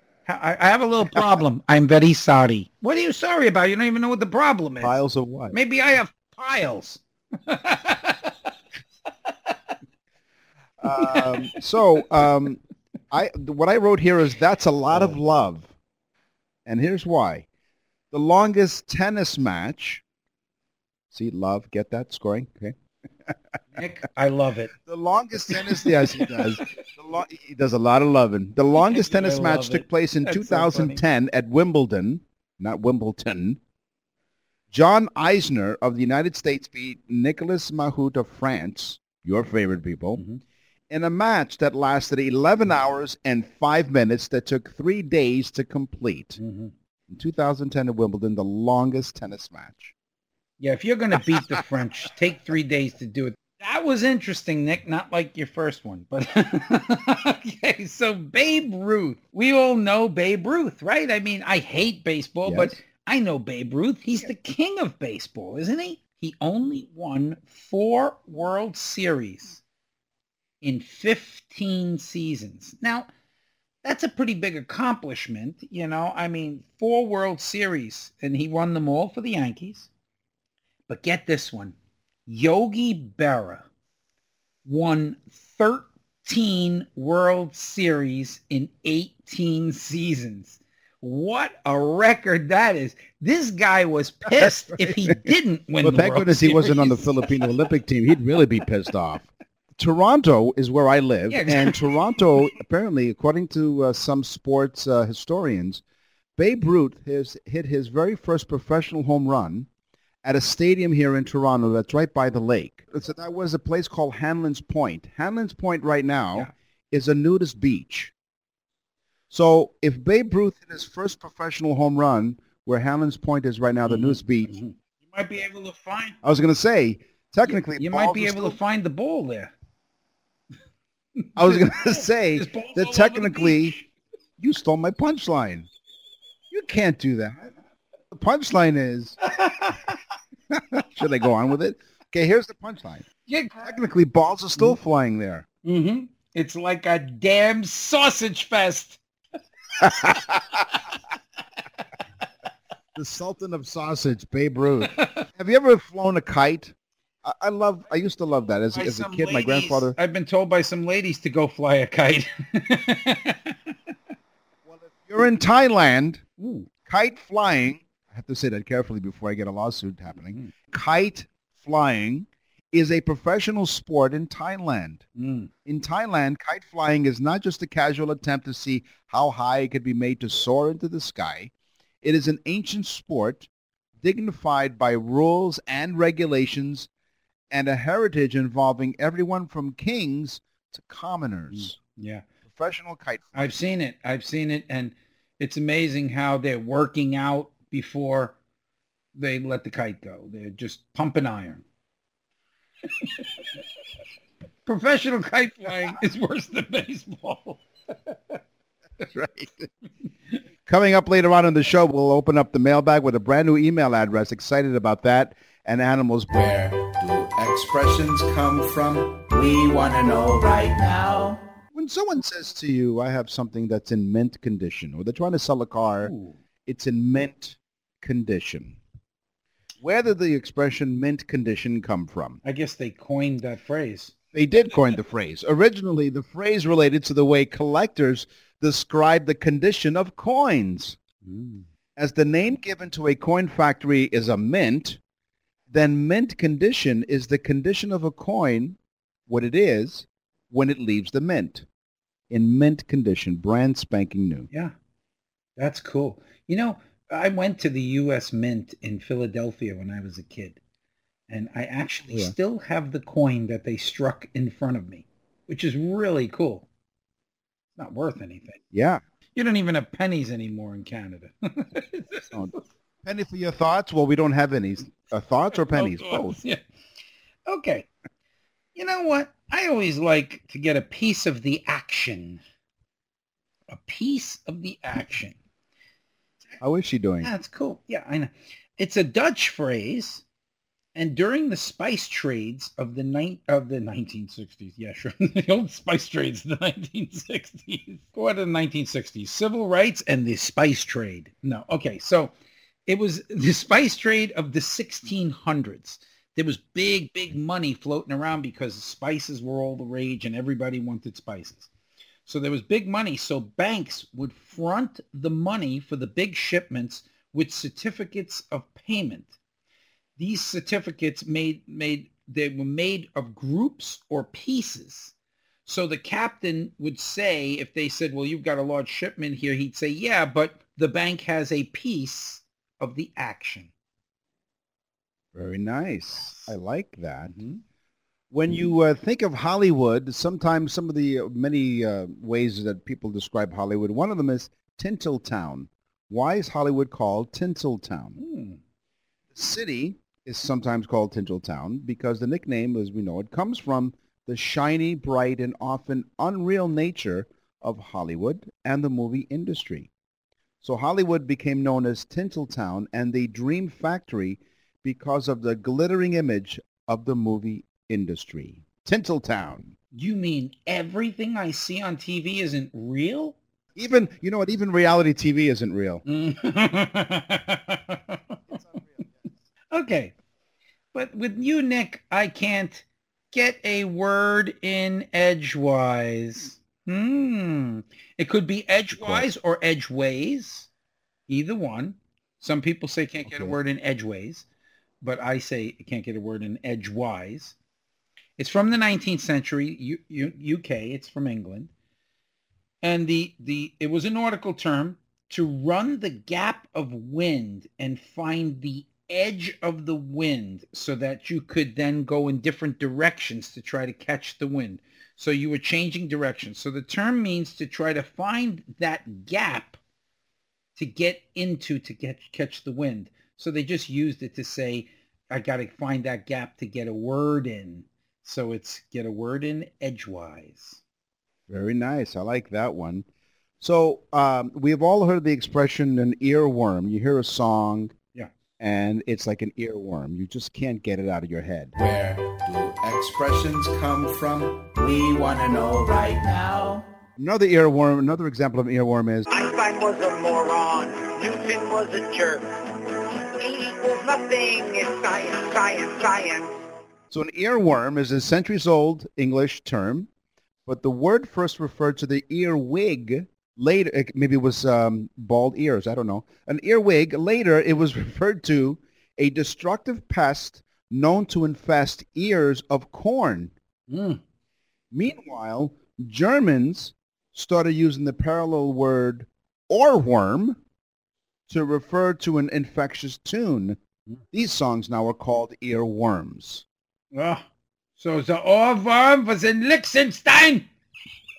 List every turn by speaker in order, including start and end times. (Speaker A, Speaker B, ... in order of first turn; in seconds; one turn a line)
Speaker A: 0.3-5.0
Speaker B: 4.8-5.6
Speaker A: 5.5-8.3
Speaker B: 10.8-15.7
Speaker A: 11.0-11.3
Speaker A: 14.9-15.2
Speaker B: 16.7-17.5
Speaker B: 18.1-20.0
Speaker B: 21.1-23.4
Speaker A: 23.8-24.7
Speaker B: 24.8-33.6
Speaker A: 25.5-26.6
Speaker A: 28.8-31.0
Speaker B: 34.7-40.2
Speaker A: 40.2-40.4
Speaker B: 40.9-46.4
Speaker A: 46.4-46.7
Speaker B: 47.1-49.9
Speaker A: 50.6-69.6
Speaker B: 62.5-62.8
Speaker A: 70.6-73.1
Speaker A: 73.8-79.9
Speaker A: 80.9-81.8
Speaker A: 82.3-83.7
Speaker A: 84.7-97.4
Speaker B: 94.4-95.2
Speaker B: 95.8-105.8
Speaker A: 101.3-101.8
Speaker B: 106.4-109.7
Speaker B: 110.2-118.1
Speaker B: 119.3-124.5
Speaker A: 123.9-126.2
Speaker B: 126.2-128.6
Speaker A: 127.5-129.5
Speaker A: 131.2-133.9
Speaker B: 131.4-133.8
Speaker B: 134.4-135.7
Speaker B: 136.5-137.5
Speaker B: 138.1-139.2
Speaker A: 139.3-140.0
Speaker B: 140.5-143.1
Speaker A: 143.3-143.6
Speaker B: 143.6-145.4
Speaker A: 145.7-149.0
Speaker A: 149.8-150.3
Speaker B: 149.8-150.6
Speaker B: 152.9-160.0
Speaker A: 155.0-155.2
Speaker A: 158.7-163.6
Speaker B: 164.7-166.2
Speaker A: 166.4-166.7
Speaker B: 166.9-175.1
Speaker A: 175.2-175.5
Speaker B: 175.7-181.5
Speaker B: 182.0-183.5
Speaker B: 184.0-186.9
Speaker B: 187.5-191.8
Speaker A: 191.5-192.2
Speaker B: 192.5-193.5
Speaker A: 193.3-198.4
Speaker A: 199.2-201.6
Speaker A: 204.7-208.4
Speaker B: 209.1-209.7
Speaker B: 210.7-216.3
Speaker C: 216.3-221.4
Speaker B: 221.7-226.2
Speaker A: 226.0-226.4
Speaker B: 226.7-228.8
Speaker B: 229.8-232.4
Speaker A: 232.4-234.1
Speaker B: 234.3-241.0
Speaker A: 241.3-241.7
Speaker B: 242.0-245.0
Speaker B: 245.7-248.8
Speaker B: 249.3-251.7
Speaker B: 252.3-254.5
Speaker A: 255.6-260.6
Speaker A: 261.3-266.7
Speaker A: 267.8-268.6
Speaker B: 268.7-269.0
Speaker A: 269.4-272.6
Speaker B: 272.3-276.4
Speaker A: 275.6-276.6
Speaker A: 277.5-277.9
Speaker A: 278.8-282.4
Speaker A: 283.7-285.4
Speaker B: 286.6-287.3
Speaker A: 287.2-290.2
Speaker A: 290.9-302.3
Speaker A: 302.9-311.7
Speaker A: 312.3-319.3
Speaker A: 320.2-325.1
Speaker A: 325.7-333.7
Speaker B: 335.3-337.4
Speaker A: 336.2-336.5
Speaker A: 337.3-337.6
Speaker B: 338.3-348.2
Speaker A: 348.2-348.6
Speaker B: 349.3-359.9
Speaker B: 360.6-369.8
Speaker A: 369.9-373.4
Speaker B: 373.8-376.0
Speaker A: 376.1-378.2
Speaker A: 379.7-380.1
Speaker A: 380.9-390.7
Speaker B: 388.9-389.3
Speaker A: 391.3-394.5
Speaker B: 393.3-393.6
Speaker A: 395.0-397.6
Speaker A: 398.4-401.7
Speaker A: 402.8-419.8
Speaker A: 420.8-430.8
Speaker B: 431.5-433.1
Speaker B: 433.6-437.9
Speaker B: 438.6-441.7
Speaker C: 441.8-446.9
Speaker B: 447.2-449.3
Speaker D: 449.3-452.4
Speaker D: 453.4-456.5
Speaker B: 457.1-460.1
Speaker B: 460.7-473.5
Speaker A: 473.9-474.2
Speaker B: 474.9-480.6
Speaker B: 481.5-483.8
Speaker B: 484.3-486.6
Speaker A: 487.1-487.4
Speaker A: 488.0-490.7